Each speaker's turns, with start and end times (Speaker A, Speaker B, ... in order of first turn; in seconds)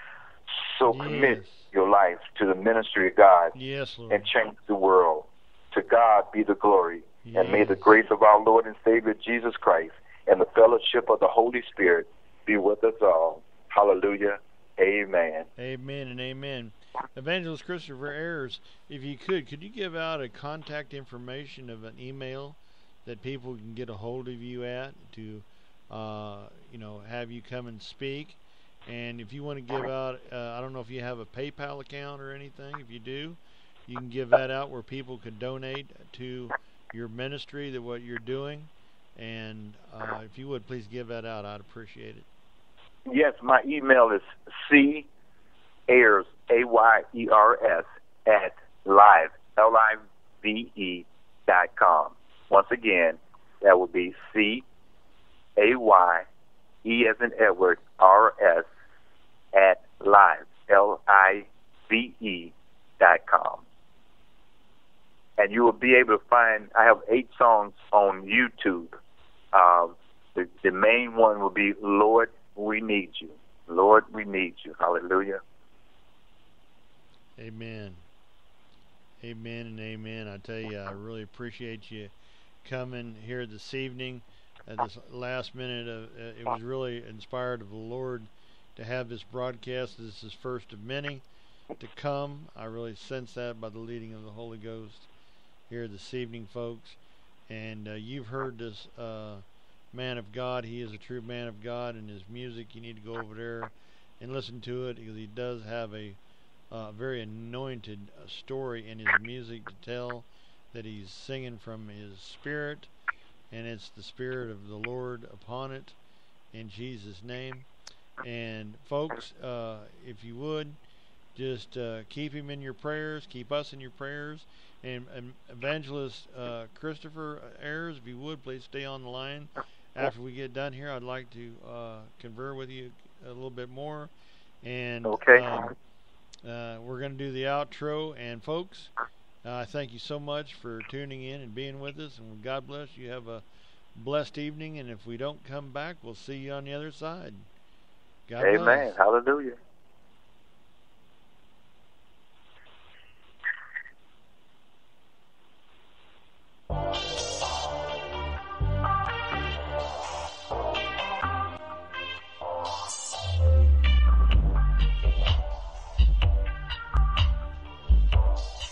Speaker A: 0.6-3.5, 4.1-15.5, 43.1-45.1, 45.9-54.6, 55.6-56.3, 56.8-58.7, 59.5-63.6, 65.4-68.9, 69.5-75.4, 135.1-135.7, 148.4-149.6
Speaker B: 0.9-1.6, 3.5-4.3, 7.2-7.9, 15.6-42.3, 77.4-78.0, 79.2-82.1, 82.6-91.2, 91.8-95.1, 95.7-97.0, 97.5-106.2, 106.7-112.9, 113.5-116.0, 116.5-117.7, 118.2-120.8, 121.3-134.1, 134.6-135.7, 136.4-138.9, 139.4-143.4, 143.9-147.4, 148.3-148.9